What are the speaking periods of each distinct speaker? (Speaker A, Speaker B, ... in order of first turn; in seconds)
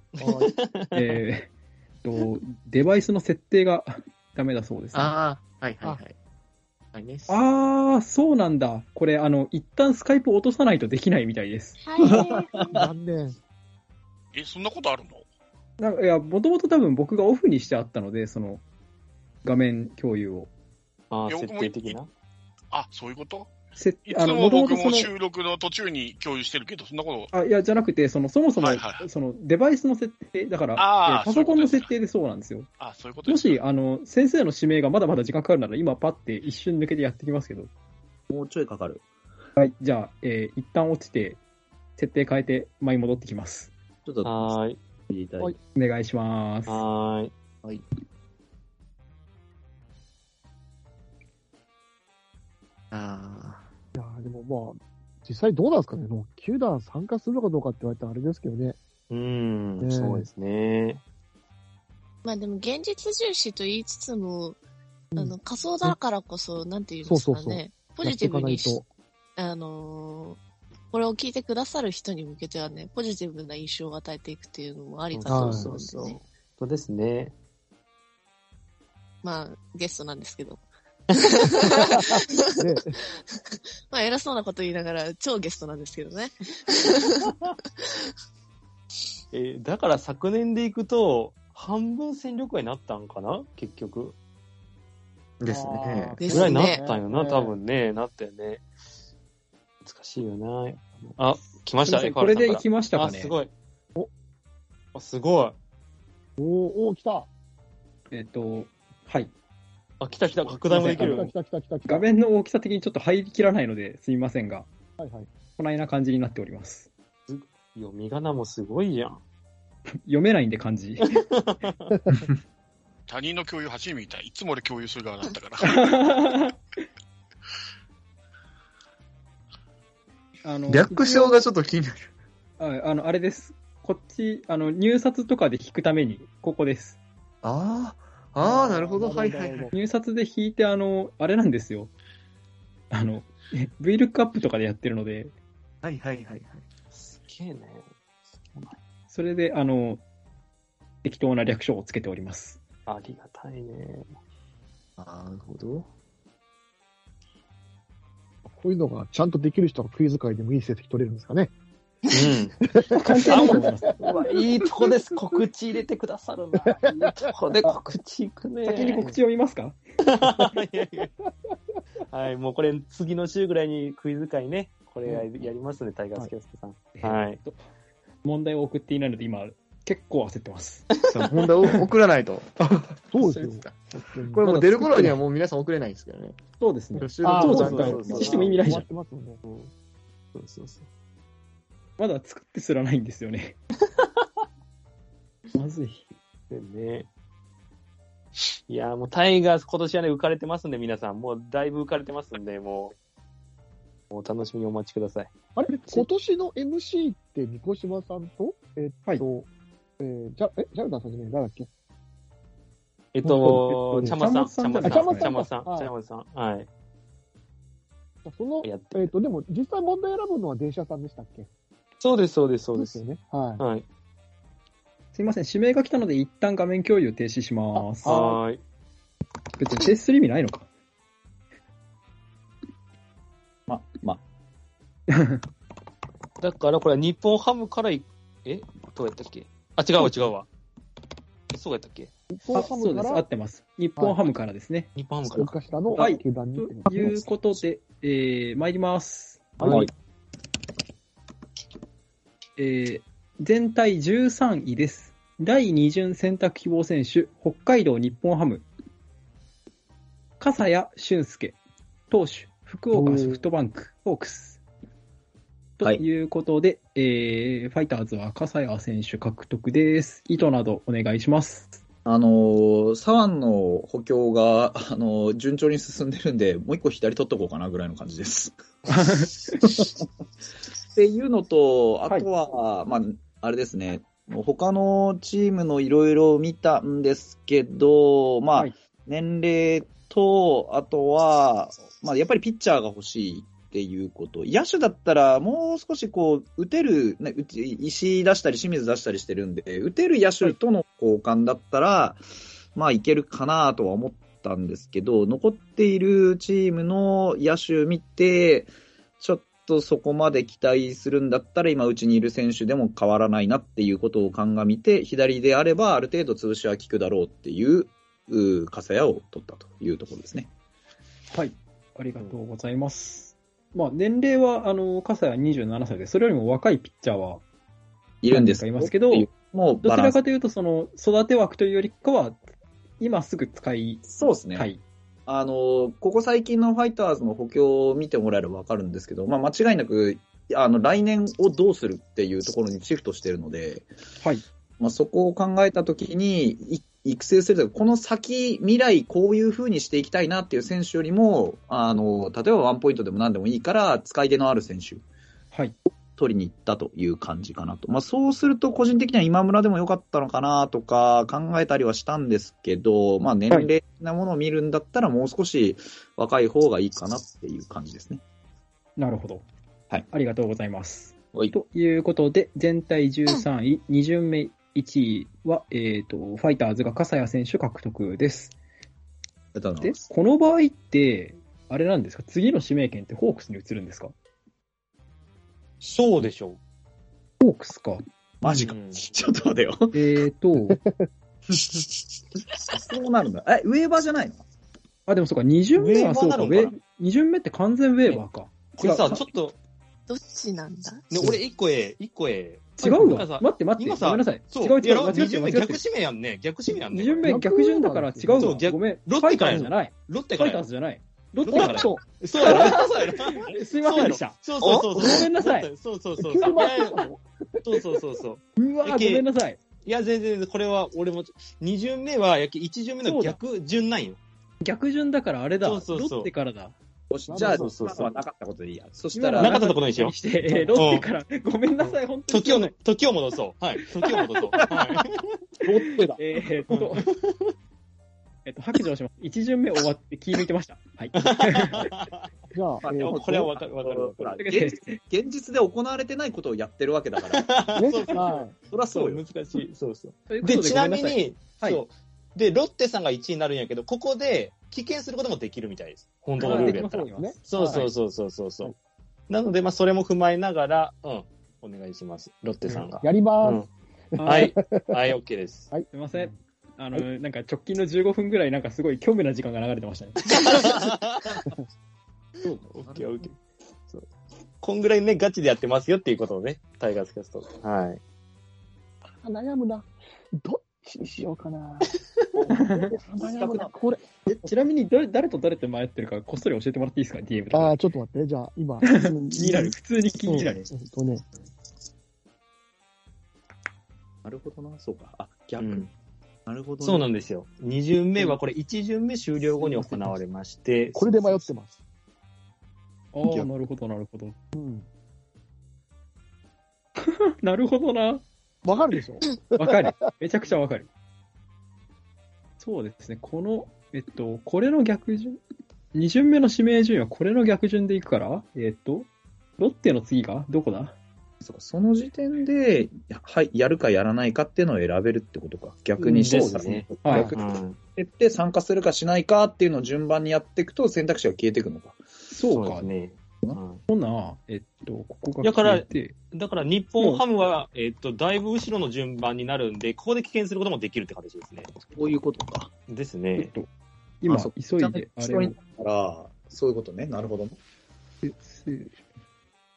Speaker A: 0.1-1.2, 21.1-22.1, 44.2-44.8, 46.7-47.3, 59.1-61.0, 75.1-77.3, 89.3-94.2, 96.2-98.6, 99.8-103.5, 104.9-105.5, 110.0-111.3, 117.3-119.2, 121.0-121.9, 146.9-147.8, 148.4-148.8, 152.8-154.1, 162.1-162.6, 163.3-169.1, 170.1-171.1, 172.1-177.4, 187.3-188.5, 189.4-189.7, 190.3-190.8, 196.5-197.1, 198.7-202.9, 204.1-205.3, 213.1-216.7, 218.6-219.1, 222.0-223.0, 223.6-223.8, 228.0-228.6, 236.4-240.5, 241.5-242.1, 244.9-246.1, 385.8-386.6, 388.4-389.0, 395.8-396.7, 398.7-399.6, 401.1-407.3, 408.4-410.6, 411.5-417.0, 417.6-419.2, 419.8-424.2, 425.6-426.3, 427.4-428.1, 429.4-430.1, 430.7-431.1, 431.8-435.2, 436.7-437.5, 441.1-442.2, 443.0-444.4, 447.2-458.7, 459.3-463.7, 464.2-465.7, 470.3-471.4, 472.7-473.4, 474.6-478.0, 495.6-495.9, 496.8-501.5, 526.0-527.8, 532.5-533.8, 535.4-541.7, 542.9-543.5
Speaker B: 0.2-0.5, 12.7-13.3, 54.0-58.8, 59.8-60.2, 67.0-68.8, 75.3-75.7, 81.9-83.0, 95.5-97.5, 106.4-107.3, 110.7-112.1, 115.0-115.3, 121.9-122.3, 138.4-139.7, 158.5-161.5, 162.1-165.4, 166.9-167.3, 183.1-185.1, 187.2-189.4, 205.5-209.5, 210.0-211.7, 213.2-214.2, 214.8-215.9, 218.2-221.5, 222.8-223.6, 242.3-243.2, 245.3-247.3, 249.6-249.9, 262.9-263.4, 390.7-391.0, 407.2-408.6, 411.5-412.9, 416.2-418.0, 427.3-428.1, 430.5-430.8, 442.5-443.5, 447.8-448.5, 456.4-457.9, 463.0-464.9, 479.2-479.9, 480.4-484.0, 487.5-489.7, 490.3-491.2, 500.9-501.8, 504.5-504.9, 508.6-509.9
Speaker C: 0.9-1.5, 2.0-5.1, 7.3-11.8, 15.8-18.6, 19.4-20.5, 23.8-25.1, 27.3-32.7, 33.2-37.7, 39.6-41.4, 42.0-43.7, 45.7-46.8, 101.8-103.3, 108.1-109.3, 111.9-114.7, 115.6-116.9, 120.0-121.2, 125.6-126.6, 130.4-131.4, 132.6-137.0, 139.7-141.9, 142.9-145.3, 149.1-150.0, 151.0-152.6, 162.9-164.0, 168.6-169.8, 176.9-177.6, 178.2-180.9, 186.6-188.8, 192.0-193.6, 195.5-196.1, 205.7-206.0, 213.4-215.3, 225.1-228.4, 229.6-230.7, 235.1-235.4, 242.5-244.9, 245.9-249.8, 252.6-258.6, 260.4-261.6, 262.1-264.6, 265.8-271.8, 278.9-279.6, 321.3-327.4, 328.3-329.3, 329.8-332.4, 333.0-334.8, 369.0-369.4, 370.1-378.5, 379.8-384.1, 387.4-388.0, 389.9-390.8, 395.1-399.3, 402.8-405.8, 406.9-415.7, 418.6-419.6, 423.0-423.4, 424.6-426.7, 429.1-432.7, 436.1-437.1, 438.4-441.9, 444.4-445.0, 450.3-451.8, 456.4-457.9, 464.1-464.5, 465.9-470.2, 482.5-482.9, 484.3-487.7, 488.8-490.7, 499.6-500.2, 503.1-504.4, 507.0-508.2, 509.6-510.9, 512.6-515.4, 515.9-520.9, 527.0-527.3, 532.3-532.9, 533.9-536.1, 543.4-543.7, 544.2-545.5, 548.2-548.9
Speaker D: 4.9-6.1, 6.9-7.4, 52.9-53.7, 95.4-96.2, 130.7-132.1, 137.4-139.7, 145.8-146.6, 155.0-155.8, 181.1-183.7, 184.3-186.4, 186.9-188.5
Speaker E: 11.8-12.7, 62.2-64.6, 65.2-68.8, 69.4-70.4, 70.9-76.2, 79.2-80.6, 81.1-82.6, 83.9-87.3, 96.2-96.8, 400.1-401.0
Speaker F: 12.0-12.9, 38.3-39.0, 44.0-45.5, 233.7-234.2, 249.6-249.9, 272.0-280.0, 280.9-302.2, 302.7-320.5, 328.2-330.2, 334.1-334.7, 335.3-343.9, 344.8-355.0, 356.1-368.2, 379.5-380.0, 388.4-390.0, 391.5-391.8, 392.7-394.4, 427.1-429.6, 435.6-436.2, 442.8-447.6, 448.6-449.2, 472.4-473.1, 482.4-483.7, 494.2-495.9, 496.4-497.1, 521.4-532.0, 541.8-542.7, 544.3-547.6
Speaker G: 14.3-15.2, 21.3-22.0, 22.7-23.5, 24.1-27.3, 28.6-29.1, 30.8-31.9, 32.8-33.6, 123.1-125.8